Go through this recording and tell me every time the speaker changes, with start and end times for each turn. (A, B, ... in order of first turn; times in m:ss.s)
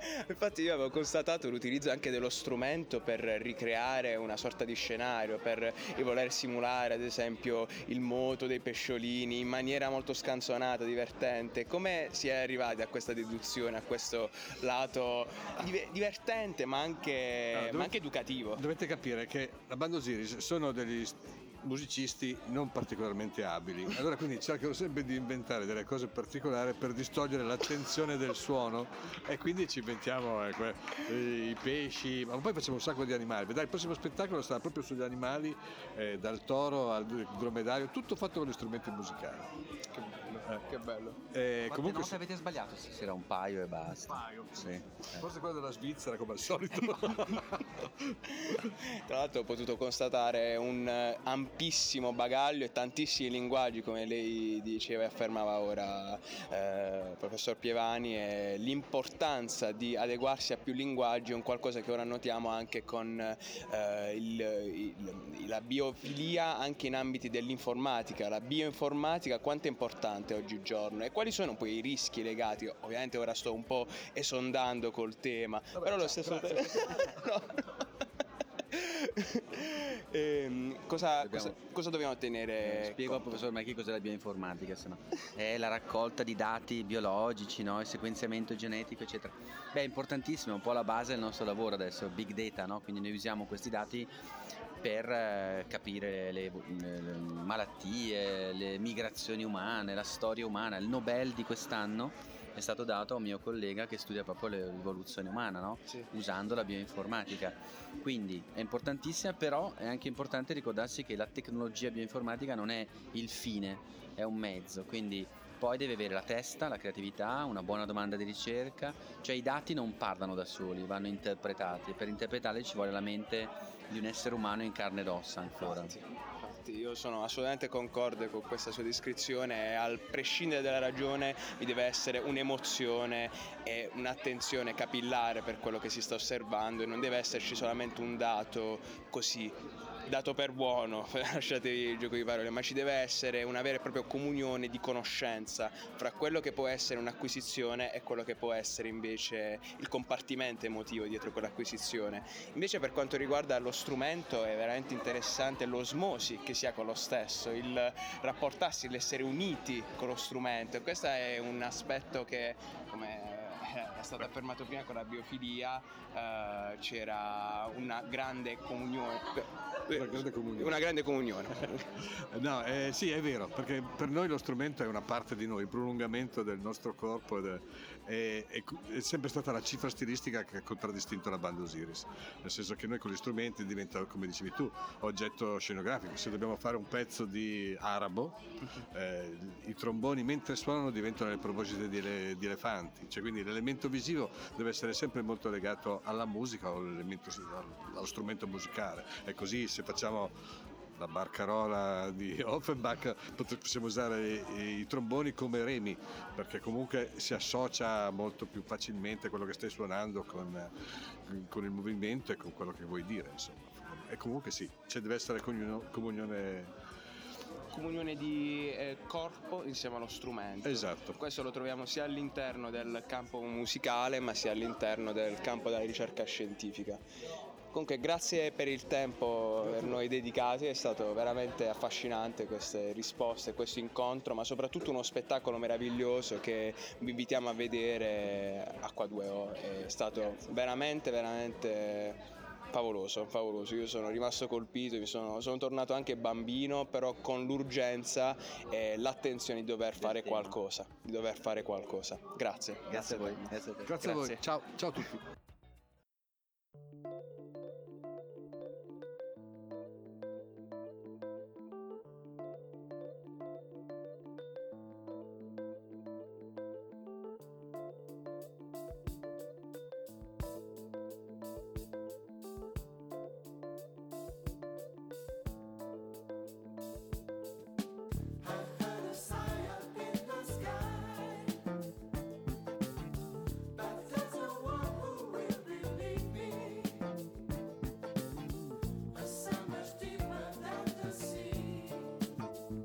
0:00.2-0:18.6 A
0:17.5-0:18.0 B
0:18.5-0:39.5 B
0:39.9-0:41.2 A
0:41.3-0:42.2 B
0:41.7-0:45.2 C
0:44.0-0:48.0 B
0:47.3-0:47.8 A
0:48.4-1:17.6 A
1:15.8-1:16.6 C
1:18.7-1:23.3 A
1:21.2-1:21.6 C
1:22.6-1:34.1 C
1:34.8-2:06.0 C
2:05.6-2:19.6 A
2:20.1-2:51.8 A
2:49.9-2:50.8 B
2:52.3-3:20.3 B
3:21.0-3:30.7 B
3:31.3-3:36.7 B
3:37.7-3:47.0 A
3:40.6-3:41.2 B
3:47.7-4:02.2 A
4:02.7-4:14.2 A
4:10.0-4:10.5 C
4:12.9-4:14.4 C
4:13.8-4:15.2 B